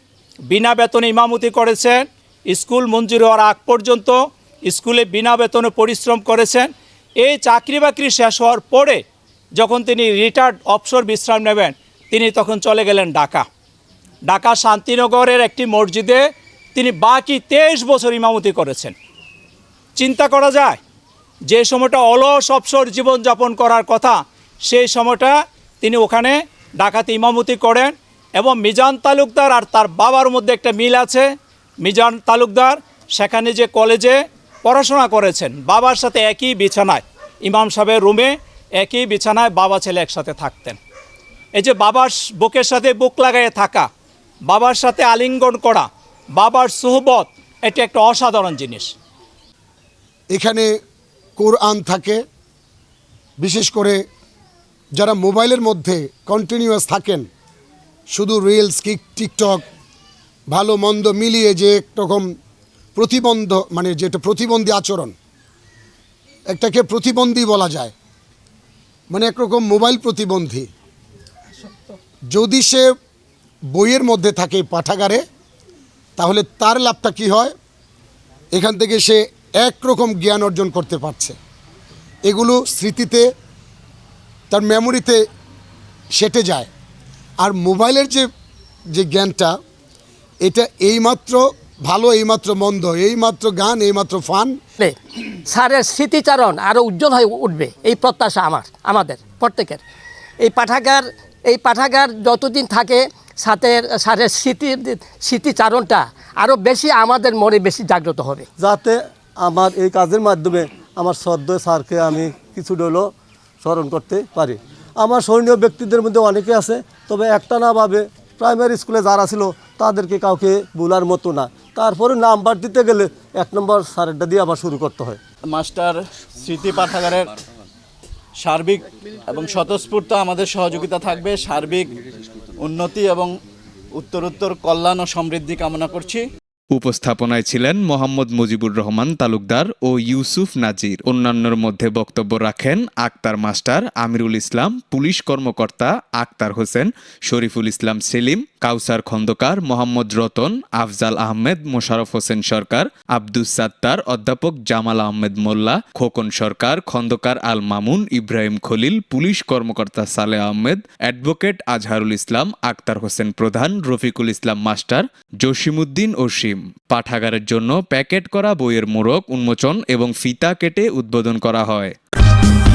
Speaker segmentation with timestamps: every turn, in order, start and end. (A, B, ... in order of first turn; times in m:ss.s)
0:00.5-0:09.0 A
0:09.6-0:13.4 A
0:14.3-0:16.2 A
0:16.7-0:18.9 A
0:20.0-0:20.8 A
0:21.5-0:31.3 A
0:31.8-0:40.8 A
0:41.6-0:43.9 A
0:44.5-0:45.9 A
0:46.4-0:48.9 A
0:50.3-0:50.7 B
0:51.4-0:52.2 B
0:53.4-0:54.0 B
0:55.0-0:57.3 B
0:58.1-0:59.6 B
1:00.5-1:02.3 B
1:02.9-1:05.1 B
1:06.5-1:07.9 B
1:09.1-1:10.7 B
1:11.6-1:11.9 A
1:12.3-1:12.9 B
1:13.7-1:15.2 B
1:16.2-1:17.5 B
1:18.5-1:21.4 B
1:22.2-1:23.3 B
1:24.5-1:25.2 B
1:26.2-1:26.7 B
1:27.4-1:28.3 B
1:28.9-1:29.5 B
1:30.4-1:34.6 B
1:34.8-1:39.8 C
1:40.4-1:48.5 C
1:48.6-1:53.1 D
1:53.6-2:05.2 D
2:05.6-2:06.0 E
2:09.4-2:11.8 E
2:14.2-2:15.8 E
2:16.7-2:51.9 F